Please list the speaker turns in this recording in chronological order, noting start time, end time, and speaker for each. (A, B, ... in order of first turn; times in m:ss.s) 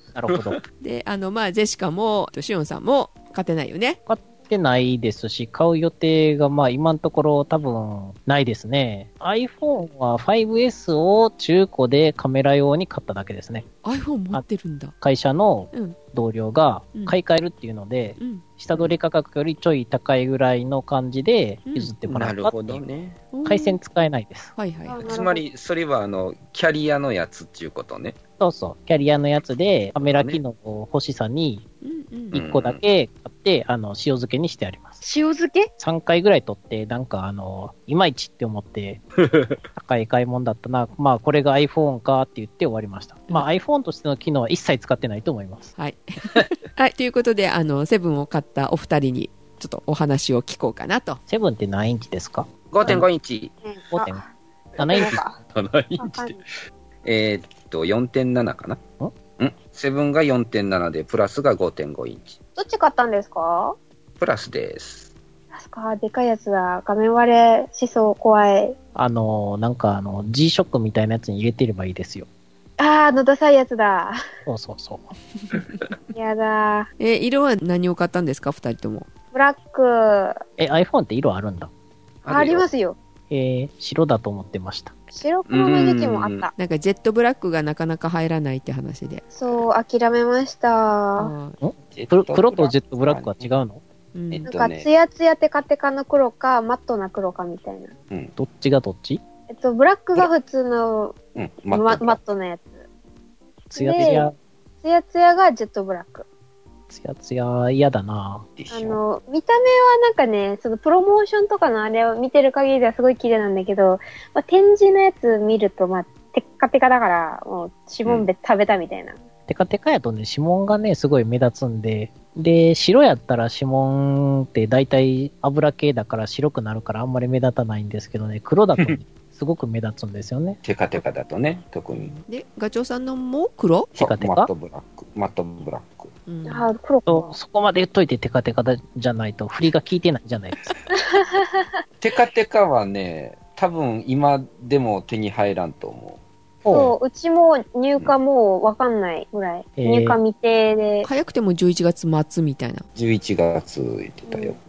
0:00.1-0:00.6 A
0:00.8-0:04.0 B
0:04.1-0:13.6 A
0:13.8-0:14.9 B
0:15.0-0:22.8 A
0:15.7-0:16.0 B
0:18.2-0:18.4 B
0:21.7-0:21.9 B
0:22.1-0:23.2 C
0:23.3-0:23.8 B
0:23.4-0:24.5 A
0:24.6-0:25.1 B
0:24.9-0:25.4 D
0:25.0-0:28.2 C
0:28.4-0:31.6 A
0:30.0-0:30.4 C
0:31.8-0:32.3 B
0:32.3-0:35.0 A
0:32.3-0:32.8 C
0:35.0-0:35.7 D
0:35.8-0:39.0 A
0:39.2-0:39.6 C
0:39.7-0:45.7 A
0:45.8-0:51.2 B
0:51.3-0:53.0 A
0:52.7-0:53.5 C
0:53.6-0:54.2 D
0:53.9-0:54.2 A
0:54.8-0:55.2 A
0:54.8-0:55.4 D
0:54.9-0:56.5 C
0:56.0-0:56.4 D
0:57.0-0:58.8 C
0:59.4-1:02.4 C
1:02.6-1:03.8 D
1:04.2-1:05.1 C
1:05.5-1:08.8 D
1:08.9-1:12.3 A
1:12.8-1:14.2 D
1:14.4-1:15.1 A
1:16.1-1:16.9 D
1:17.0-1:19.1 B
1:19.3-1:20.4 D
1:20.6-1:21.7 A
1:22.2-1:22.7 C
1:22.3-1:23.0 D
1:23.3-1:24.9 A
1:25.1-1:26.5 D
1:25.5-1:26.5 C
1:26.6-1:29.2 B
1:29.3-1:31.3 D
1:31.2-1:31.6 B
1:31.6-1:33.8 A
1:31.9-1:33.5 C
1:34.1-1:34.5 B
1:34.3-1:34.9 C
1:34.4-1:37.9 D
1:38.4-1:39.2 A
1:39.5-1:41.2 D
1:41.3-1:42.2 C
1:41.7-1:42.8 D
1:43.7-1:44.3 D
1:43.7-1:44.3 A
1:44.8-1:46.2 D
1:46.9-1:48.4 A
1:48.6-1:49.0 C
1:48.7-1:59.2 D
1:59.5-2:10.6 A
2:10.6-2:12.1 C
2:12.0-2:13.9 B
2:13.9-2:14.5 A
2:14.0-2:16.1 C
2:16.3-2:16.7 B
2:16.4-2:17.3 D
2:17.1-2:20.7 A
2:20.9-2:21.8 D
2:22.0-2:26.2 C
2:26.6-2:27.0 A
2:26.7-2:31.1 D
2:29.8-2:30.2 A
2:31.0-2:32.8 B
2:33.0-2:34.6 C
2:34.3-2:34.6 D